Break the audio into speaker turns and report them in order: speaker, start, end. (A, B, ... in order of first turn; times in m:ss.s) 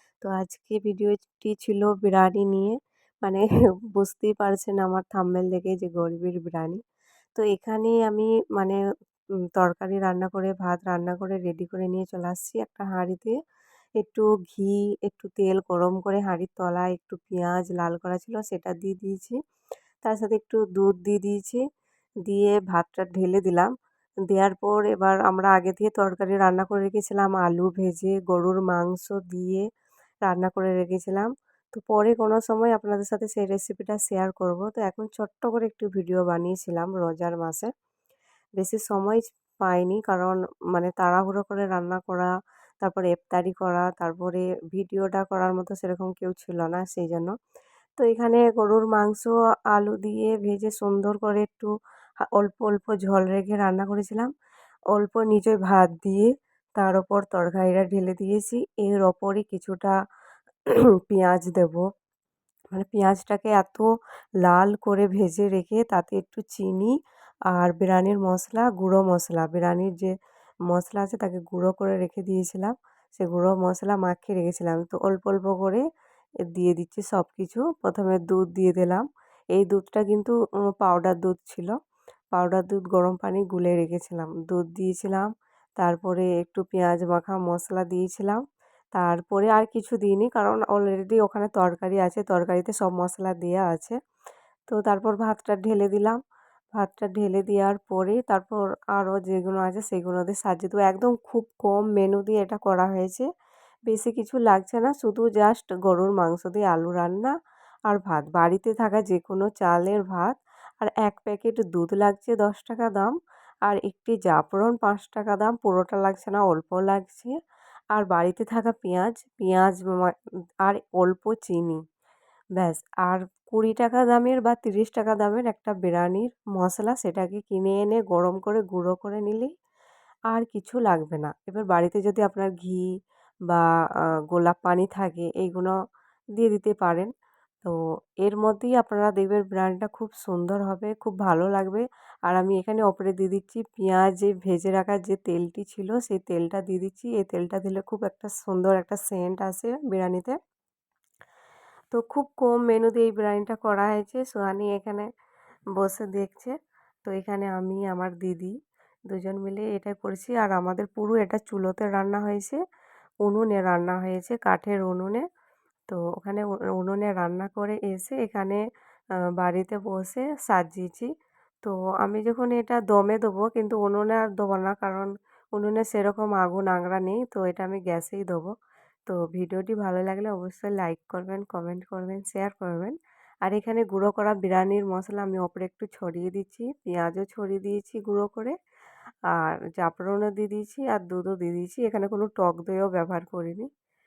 0:00.2-0:06.8 A
0:07.4-0:08.8 A
0:09.6-0:13.4 A
0:14.0-0:19.4 A
0:20.0-0:21.6 A
0:22.2-0:23.7 A
0:24.3-0:29.6 A
0:30.2-0:37.7 A
0:38.6-0:42.3 A
0:42.8-0:47.3 A
0:48.0-0:51.7 A
0:52.3-0:54.3 A
0:54.9-0:59.9 A
1:01.1-1:01.8 A
1:02.7-1:03.9 A
1:04.4-1:06.9 A
1:07.5-1:10.1 A
1:10.7-1:15.8 A
1:16.5-1:21.7 A
1:22.3-1:25.3 A
1:25.8-1:28.4 A
1:28.9-1:34.0 A
1:34.7-1:36.2 A
1:36.8-1:43.3 A
1:43.9-1:47.3 A
1:47.9-1:53.1 A
1:53.6-1:57.3 A
1:57.9-2:01.8 A
2:02.6-2:09.5 A
2:10.3-2:12.9 A
2:14.3-2:15.7 A
2:16.4-2:17.1 A
2:17.6-2:30.4 A
2:31.9-2:35.1 A
2:35.8-2:36.5 A
2:37.0-2:38.5 A
2:39.1-2:42.6 A
2:43.2-2:45.2 A
2:45.9-2:48.6 A
2:49.4-2:51.1 A
2:51.6-2:58.5 A
2:59.1-3:08.5 A
3:09.3-3:13.7 A